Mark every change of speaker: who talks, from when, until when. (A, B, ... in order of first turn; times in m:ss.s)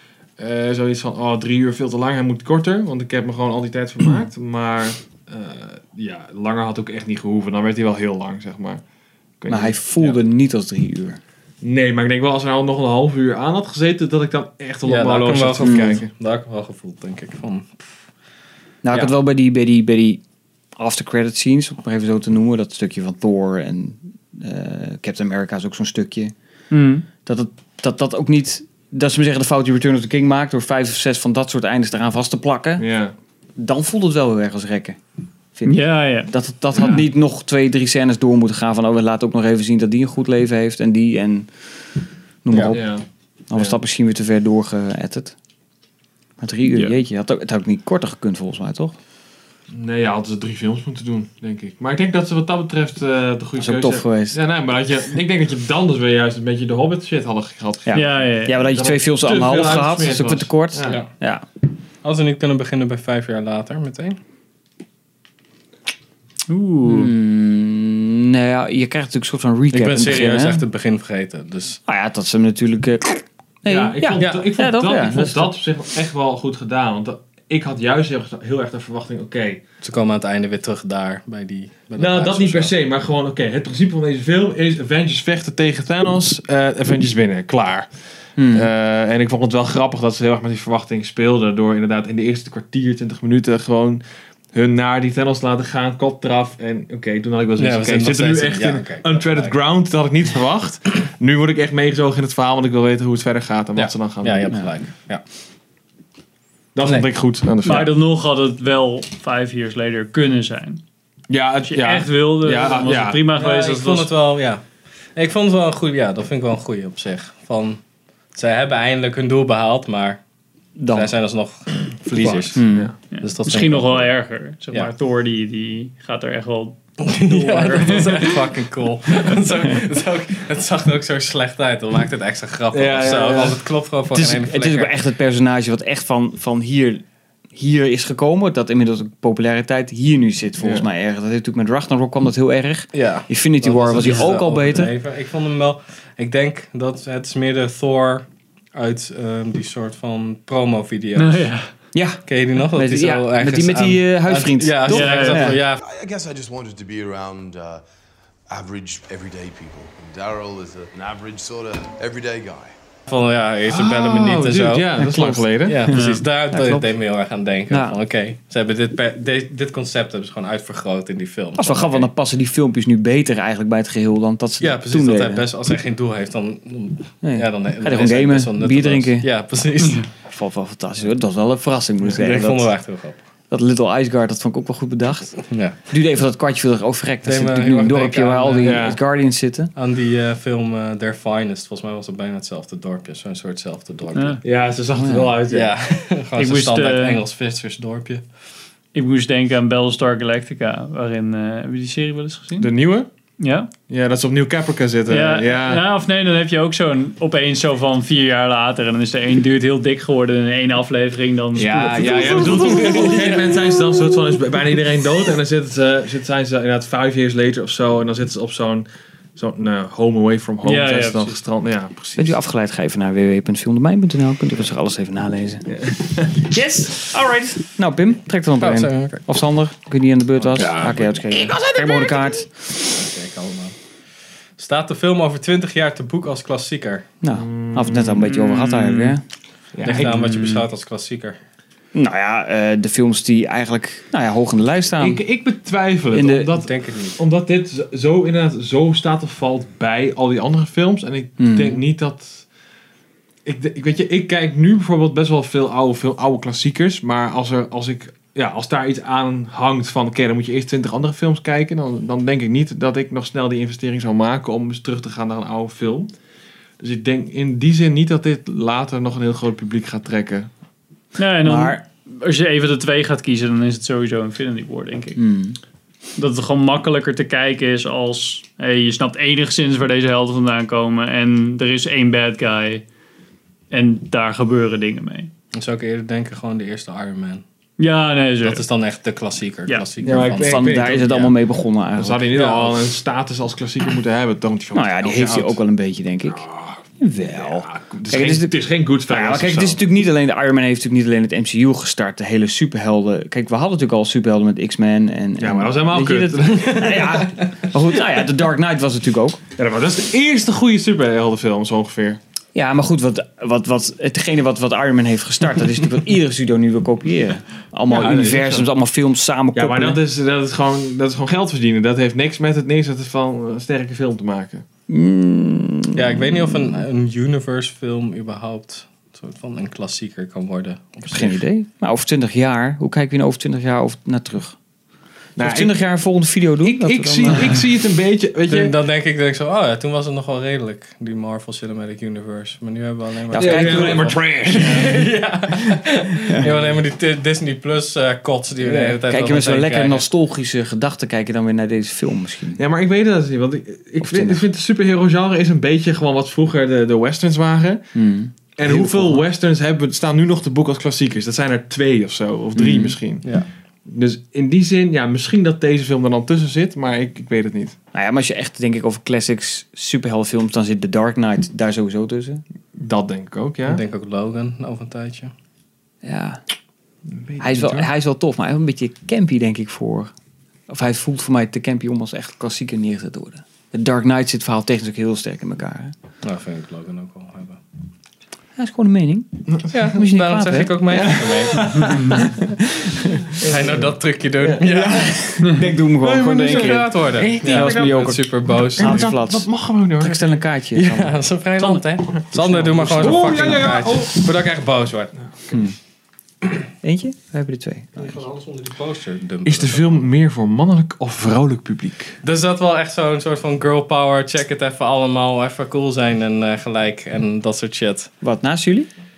0:00.4-0:08.8 A
0:09.4-0:10.2 A
0:09.5-0:11.2 B
0:11.6-0:16.0 A
0:14.8-0:17.8 C
0:15.6-0:16.0 B
0:18.8-0:20.2 B
0:20.8-0:26.3 B
0:26.7-0:27.0 D
0:27.2-0:32.9 B
0:32.8-0:33.1 A
0:33.6-0:35.0 B
0:35.5-0:41.5 B
0:35.7-0:36.3 D
0:36.7-0:37.0 A
0:42.4-0:42.9 B
0:42.5-0:42.8 C
0:42.7-0:43.0 A
0:43.5-0:45.4 B
0:46.4-0:49.0 B
0:49.7-1:01.0 A
0:53.6-0:54.4 B
0:57.8-1:01.4 B
0:57.9-0:58.5 D
1:02.0-1:04.2 C
1:06.5-1:07.1 D
1:06.8-1:10.6 B
1:09.7-1:11.8 C
1:11.9-1:15.5 B
1:13.6-1:19.6 A
1:14.2-1:14.4 C
1:19.8-1:22.7 C
1:22.0-1:27.9 A
1:28.4-1:28.7 B
1:28.5-1:34.0 A
1:34.5-1:44.5 A
1:37.6-1:39.5 C
1:43.8-1:45.2 C
1:46.7-1:47.9 A
1:47.6-1:50.8 D
1:51.3-1:53.3 A
1:51.7-1:54.1 D
1:53.3-1:54.6 C
1:55.1-1:57.8 C
1:58.3-2:00.2 C
2:00.8-2:01.1 B
2:00.9-2:02.6 C
2:02.1-2:02.9 A
2:02.5-2:02.9 B
2:03.1-2:08.4 D
2:03.2-2:04.1 C
2:07.0-2:14.9 C
2:12.7-2:13.6 A
2:14.1-2:24.9 B
2:20.6-2:20.8 A
2:22.9-2:31.5 C
2:31.2-2:31.7 D
2:31.9-2:35.6 B
2:32.2-2:35.8 C
2:34.9-2:35.6 D
2:35.8-2:37.8 E
2:38.5-2:42.7 E
2:43.1-2:44.9 C
2:43.7-2:45.8 A
2:45.0-2:46.0 B
2:45.6-2:52.1 C
2:45.9-2:46.2 D
2:46.5-2:46.9 B
2:47.7-2:48.0 B
2:51.6-2:55.4 B
2:54.6-3:00.1 C
2:57.2-2:59.3 B
3:00.3-3:02.7 B
3:02.2-3:03.2 C
3:03.5-3:09.7 B
3:05.5-3:05.8 C
3:07.2-3:08.9 C
3:08.6-3:09.0 A
3:09.8-3:14.4 C
3:14.1-3:14.4 D
3:14.4-3:15.7 A
3:15.0-3:15.3 B
3:15.5-3:18.2 C
3:16.4-3:17.2 D
3:18.9-3:22.7 D
3:22.6-3:23.1 A
3:23.4-3:23.7 D
3:23.9-3:25.8 A
3:25.1-3:33.3 D
3:31.5-3:42.4 A
3:32.5-3:33.3 C
3:40.6-3:41.4 D
3:42.2-3:52.5 B
3:45.7-3:46.4 A
3:48.6-3:49.2 C
3:50.5-3:51.1 C
3:50.5-3:52.3 A
3:52.8-3:53.7 C
3:54.6-3:57.1 C
3:57.2-3:59.2 B
3:57.3-3:58.3 A
3:58.2-3:59.2 D
3:59.7-4:00.5 A
3:59.8-4:01.4 C
4:01.9-4:05.2 B
4:05.0-4:12.4 A
4:06.1-4:06.5 B
4:06.5-4:07.2 C
4:11.4-4:11.8 B
4:13.4-4:26.1 A
4:26.8-4:30.5 A
4:31.2-4:35.2 D
4:31.4-4:31.8 B
4:35.2-4:35.6 B
4:36.2-4:42.8 D
4:43.7-4:45.3 D
4:45.5-4:47.4 C
4:47.8-4:48.6 D
4:48.4-4:51.0 C
4:50.0-4:51.3 A
4:50.3-4:52.3 B
4:52.0-4:55.6 A
4:52.4-4:52.7 C
4:54.7-4:56.4 B
4:56.3-4:59.8 A
4:57.0-4:58.5 B
4:59.0-5:09.4 B
5:05.4-5:07.3 A
5:06.8-5:07.3 C
5:09.6-5:12.2 A
5:12.5-5:20.0 B
5:17.9-5:18.7 A
5:19.5-5:24.6 A
5:24.9-5:26.6 B
5:25.9-5:31.4 C
5:31.0-5:34.6 B
5:35.4-5:35.8 A
5:35.4-5:37.6 B
5:36.6-5:38.7 A
5:38.5-5:50.0 C
5:43.3-5:44.8 B
5:43.3-5:45.0 A
5:46.4-5:46.7 A
5:48.6-5:49.0 A
5:49.0-5:52.6 B
5:52.6-5:57.8 A
5:54.0-5:54.4 B
5:57.9-5:59.2 B
5:58.6-6:03.3 A
6:02.5-6:03.0 B
6:03.8-6:07.8 A
6:07.9-6:12.4 B
6:12.8-6:13.8 A
6:13.6-6:15.3 C
6:16.0-6:16.4 B
6:17.1-6:17.9 A
6:17.4-6:20.1 B
6:20.7-6:25.9 B
6:26.2-6:27.6 C
6:28.6-6:31.2 B
6:29.7-6:32.3 C
6:31.0-6:32.2 A
6:32.3-6:33.3 B
6:33.3-6:35.2 C
6:33.4-6:35.0 A
6:34.6-6:41.2 B
6:36.0-6:38.2 A
6:36.0-6:39.1 C
6:38.7-6:40.4 A
6:40.7-6:45.1 C
6:42.3-6:43.6 B
6:42.9-6:44.3 A
6:45.5-6:45.7 B
6:46.8-6:48.2 B
6:48.0-6:50.0 C
6:49.4-6:52.2 A
6:52.2-6:58.1 C
6:58.2-6:58.9 B